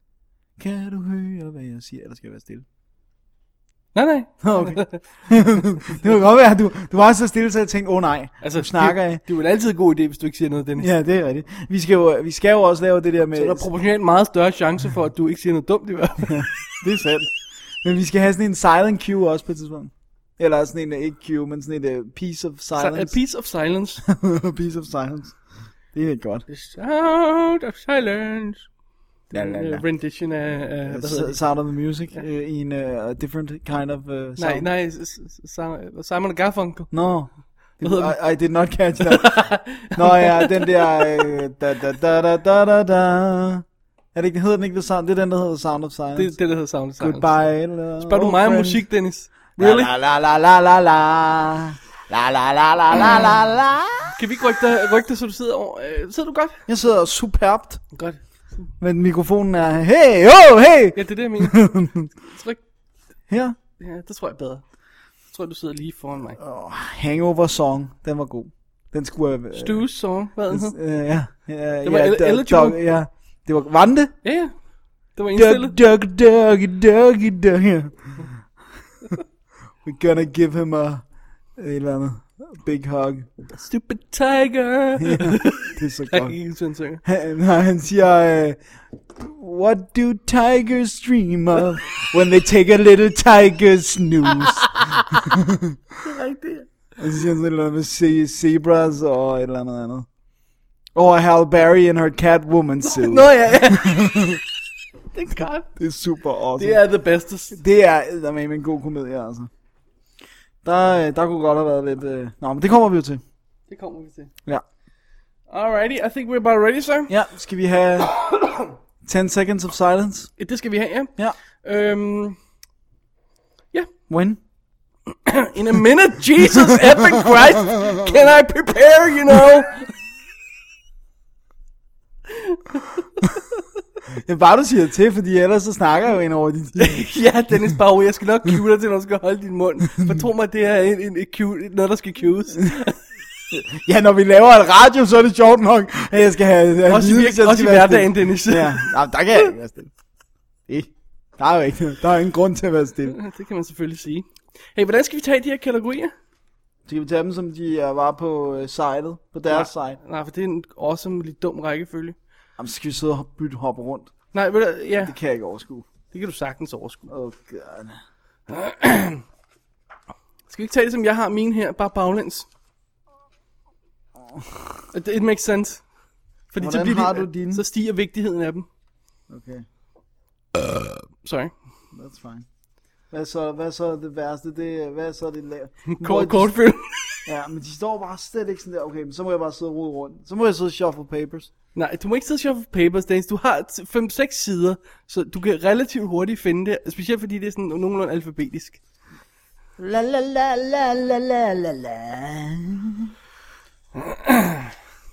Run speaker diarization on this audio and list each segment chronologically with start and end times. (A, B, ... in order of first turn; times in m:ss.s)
0:00.6-0:02.6 A
0:03.9-0:05.0 B
0:04.4-0:09.2 A
0:08.4-0:10.9 B
0:10.8-0:13.7 A
0:13.3-0:16.6 B
0:16.3-0:17.3 A
0:17.8-0:23.2 A
0:22.8-0:24.0 B
0:24.0-0:25.4 A
0:25.9-0:26.4 A
0:26.5-0:28.7 B
0:29.3-0:31.4 B
0:29.3-0:29.8 A
0:30.8-0:34.7 A
0:34.4-0:36.9 B
0:36.9-0:46.3 A
0:37.8-0:38.2 B
0:39.0-0:40.8 B
0:46.1-0:47.4 B
0:47.0-0:48.8 A
0:48.0-0:49.9 B
0:49.6-0:54.1 A
0:54.2-0:56.6 B
0:56.7-0:57.8 A
0:57.9-0:58.2 B
0:58.8-1:02.1 A
1:00.9-1:02.6 B
1:03.3-1:03.6 A
1:03.8-1:04.6 B
1:05.3-1:06.4 B
1:06.4-1:09.9 A
1:09.5-1:10.8 B
1:10.5-1:14.1 A
1:11.8-1:12.8 B
1:14.2-1:14.5 B
1:15.1-1:15.8 B
1:15.3-1:18.5 A
1:19.8-1:21.0 A
1:21.5-1:23.3 A
1:23.5-1:27.0 B
1:25.0-1:26.4 A
1:27.0-1:28.6 A
1:29.2-1:35.7 A
1:34.2-1:35.4 B
1:36.0-1:36.7 B
1:37.0-1:40.1 A
1:41.0-1:44.4 A
1:42.8-1:44.3 B
1:45.1-1:45.7 B
1:45.8-1:46.8 A
1:46.6-1:47.6 B
1:47.5-1:49.5 A
1:50.6-1:53.2 A
1:53.7-1:54.3 B
1:55.5-1:57.1 B
1:57.1-1:58.2 A
1:58.1-1:58.7 B
1:59.0-2:00.3 A
2:00.4-2:02.4 B
2:04.1-2:04.4 A
2:05.2-2:09.9 B
2:12.3-2:13.6 B
2:14.2-2:17.1 A
2:16.8-2:23.0 B
2:23.5-2:29.9 A
2:26.9-2:29.5 B
2:30.7-2:33.2 A
2:33.1-2:36.1 B
2:36.8-2:40.0 A
2:39.5-2:42.2 B
2:42.6-2:44.1 A
2:44.3-2:45.1 B
2:45.0-2:45.9 A
2:46.1-2:47.1 B
2:47.1-2:48.0 A
2:48.5-2:49.2 B
2:50.5-2:52.5 B
2:54.2-2:54.9 A
2:54.9-2:55.8 B
2:56.5-2:58.7 B
2:56.6-2:57.6 A
2:59.3-2:59.6 A
3:00.5-3:01.5 B
3:01.9-3:02.4 A
3:03.1-3:06.5 A
3:05.9-3:07.3 B
3:07.2-3:11.5 A
3:11.7-3:18.8 B
3:19.8-3:23.1 A
3:24.0-3:24.7 B